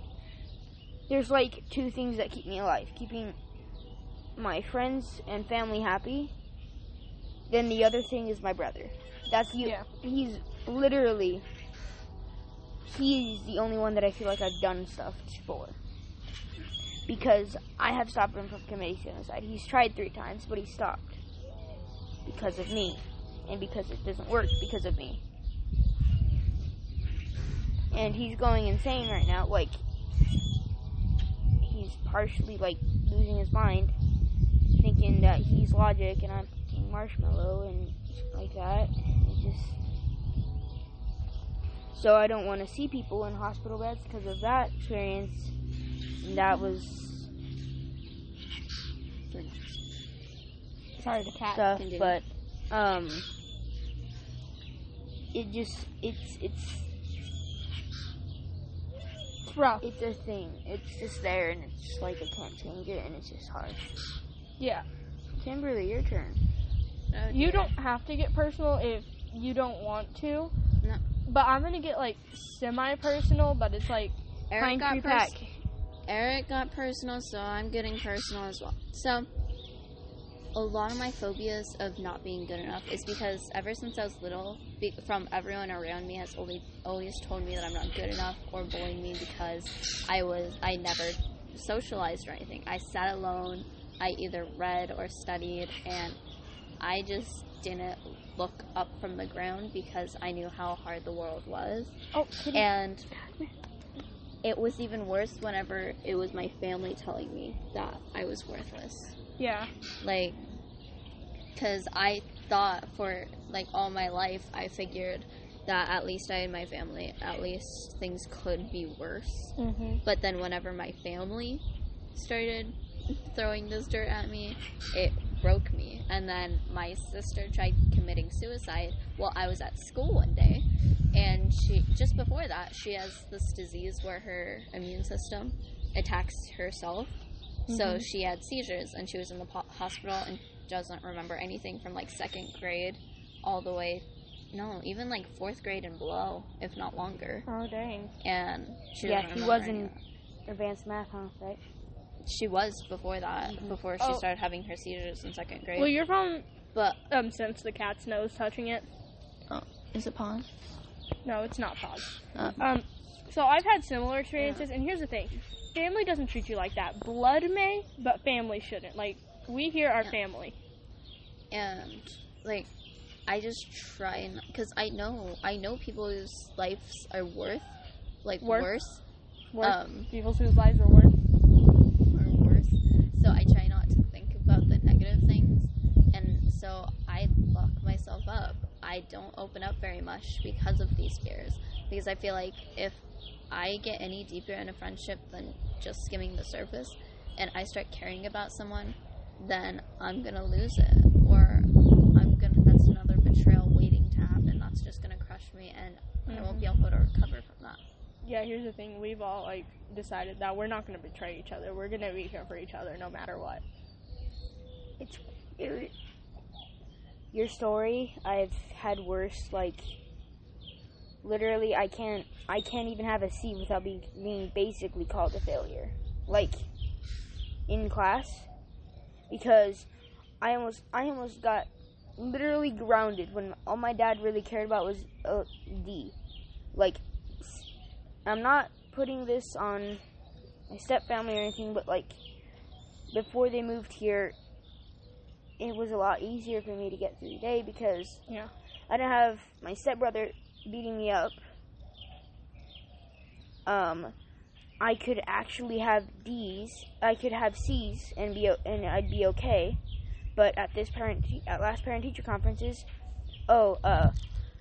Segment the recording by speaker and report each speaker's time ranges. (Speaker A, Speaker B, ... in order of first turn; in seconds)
Speaker A: 1.1-3.4, 4.3-6.3, 7.5-11.4, 12.8-15.8, 17.1-21.2, 22.2-25.2, 27.9-29.8, 31.6-33.9, 34.8-39.8, 41.9-45.5, 46.2-47.3, 51.5-53.3, 55.3-56.9, 59.8-63.8, 65.3-66.4, 149.0-149.9, 150.5-151.6, 215.0-215.9, 217.3-219.9, 221.2-226.7, 227.7-228.5, 229.3-229.9, 230.4-236.1, 236.7-237.7, 238.2-240.0, 240.7-242.2, 243.1-244.3, 245.6-248.2, 248.9-251.4, 253.7-254.1, 254.8-259.8, 260.3-262.9, 263.5-264.1
Speaker B: 9.6-9.9, 51.0-51.7, 59.5-59.9, 64.6-64.8, 67.3-70.5, 71.2-75.5, 102.1-102.7, 109.4-109.7, 119.6-120.0, 137.7-138.1, 147.5-148.1, 155.8-156.4, 157.1-158.9, 161.2-170.5, 178.4-178.7, 179.5-181.1, 206.3-206.6, 208.2-213.6
Speaker C: 49.3-49.8, 51.8-52.2, 67.1-67.7, 74.5-75.3, 76.1-79.3, 80.5-96.2, 96.8-101.9, 102.5-103.1, 104.4-109.2, 110.0-110.4, 111.5-121.6, 122.1-137.1, 137.7-147.5, 148.2-150.0, 152.2-155.9, 156.7-157.0, 159.5-160.5, 164.4-164.7, 171.5-172.7, 173.3-177.7, 178.2-179.0, 179.6-180.1, 182.1-207.8